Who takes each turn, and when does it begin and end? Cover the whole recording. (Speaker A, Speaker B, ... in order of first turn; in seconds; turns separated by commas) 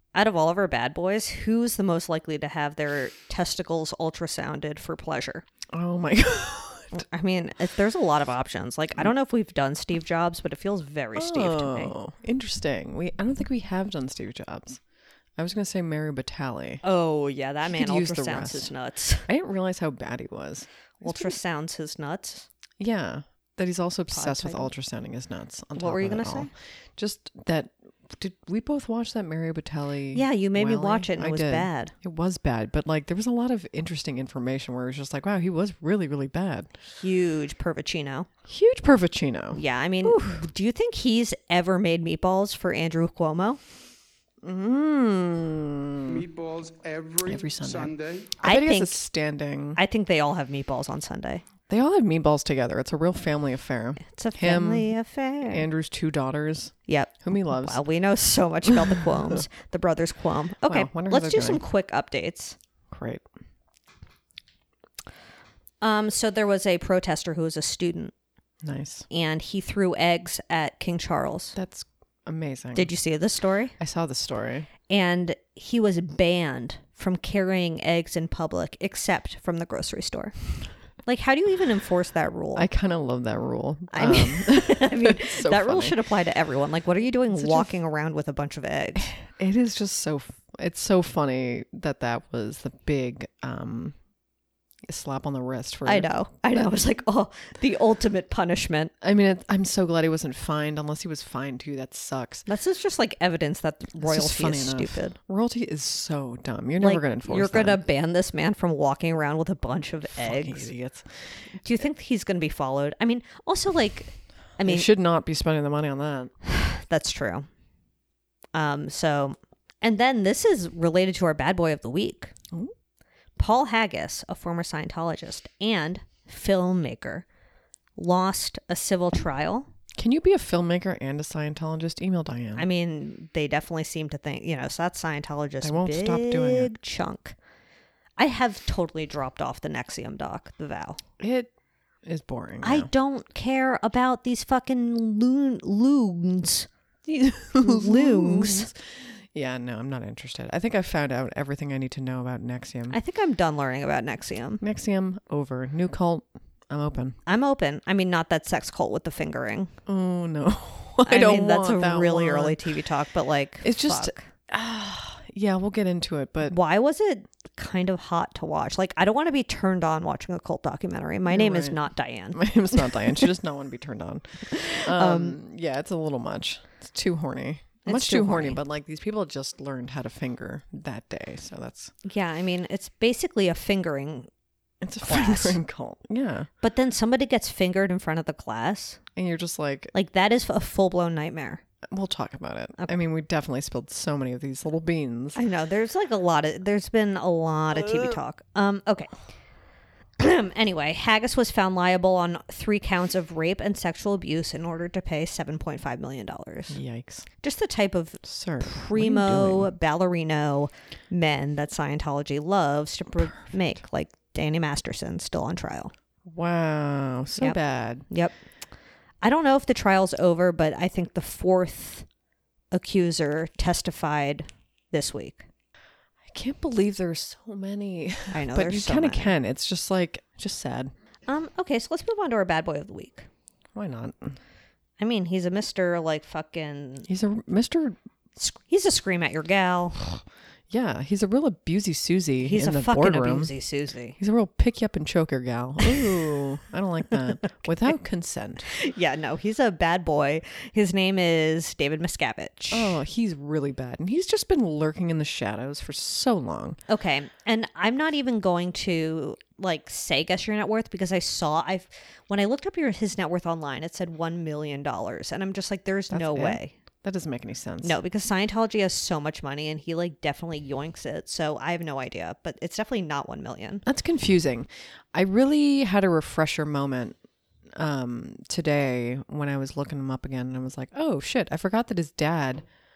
Speaker A: 0.1-5.4, Speaker B: 5.7-7.0, Speaker A: 6.9-11.9, Speaker B: 11.1-14.8, Speaker B: 15.4-16.8, Speaker A: 16.8-19.3, Speaker B: 17.6-18.7, Speaker B: 19.2-21.4, Speaker A: 21.0-22.5, Speaker B: 22.8-36.7, Speaker A: 24.1-24.7, Speaker A: 25.8-26.5, Speaker A: 30.1-31.9, Speaker A: 36.9-38.3, Speaker B: 38.5-40.4, Speaker A: 39.5-43.6, Speaker B: 44.4-46.2, Speaker C: 46.1-48.3, Speaker B: 47.2-49.8, Speaker A: 48.4-49.0, Speaker A: 49.8-51.4, Speaker B: 51.7-57.8, Speaker A: 54.0-55.6, Speaker A: 56.9-62.5, Speaker B: 58.6-59.4, Speaker B: 60.6-61.6, Speaker B: 62.9-63.2, Speaker A: 65.8-68.1, Speaker B: 68.6-69.1, Speaker A: 69.1-71.5, Speaker B: 71.5-72.9, Speaker A: 72.7-73.7, Speaker B: 73.8-74.7, Speaker A: 74.9-80.3, Speaker A: 81.0-82.7, Speaker B: 82.5-86.0, Speaker A: 83.9-89.1, Speaker B: 87.3-87.7, Speaker B: 89.0-94.0, Speaker B: 94.9-96.1, Speaker A: 95.8-98.9, Speaker B: 99.0-102.5, Speaker A: 102.5-105.2, Speaker B: 104.0-107.8, Speaker A: 106.8-110.7, Speaker B: 110.2-111.3, Speaker A: 111.6-114.9, Speaker B: 114.6-116.3, Speaker A: 116.5-117.5, Speaker A: 118.5-122.3, Speaker A: 123.4-127.2, Speaker A: 128.0-129.7, Speaker B: 129.9-132.7, Speaker A: 132.6-137.3, Speaker B: 135.6-136.7, Speaker A: 138.2-141.0, Speaker B: 141.2-141.5, Speaker B: 142.0-142.9, Speaker A: 142.6-146.7, Speaker B: 147.1-153.0, Speaker A: 147.6-148.7, Speaker A: 152.9-154.6, Speaker B: 154.6-157.2, Speaker A: 157.3-159.7, Speaker B: 159.9-162.7, Speaker A: 161.1-164.3, Speaker B: 163.6-166.6, Speaker A: 166.4-173.3, Speaker B: 171.3-171.8, Speaker B: 172.3-181.9, Speaker A: 174.5-175.4, Speaker A: 177.8-178.6, Speaker A: 182.0-184.3, Speaker B: 184.8-186.5, Speaker A: 185.0-185.6, Speaker A: 186.6-189.0, Speaker B: 189.2-189.9, Speaker A: 189.9-191.6, Speaker B: 191.9-195.4, Speaker A: 195.3-199.1, Speaker B: 197.8-198.2, Speaker A: 200.2-206.8, Speaker B: 206.7-207.3, Speaker A: 207.4-215.9, Speaker B: 208.2-209.7, Speaker B: 213.1-213.5, Speaker B: 216.2-218.1, Speaker A: 218.1-218.3, Speaker A: 219.2-222.1, Speaker A: 222.7-225.5, Speaker B: 226.3-230.9, Speaker A: 228.3-229.3, Speaker A: 231.3-233.3, Speaker B: 233.7-234.4, Speaker A: 235.0-237.1, Speaker B: 237.1-238.0, Speaker A: 238.4-240.2, Speaker B: 240.7-243.5, Speaker A: 242.4-244.2, Speaker B: 244.2-248.7, Speaker A: 248.7-253.0, Speaker B: 252.7-256.8, Speaker A: 256.9-266.8, Speaker B: 266.1-268.0, Speaker A: 267.8-273.8, Speaker B: 273.9-277.2, Speaker B: 277.8-282.6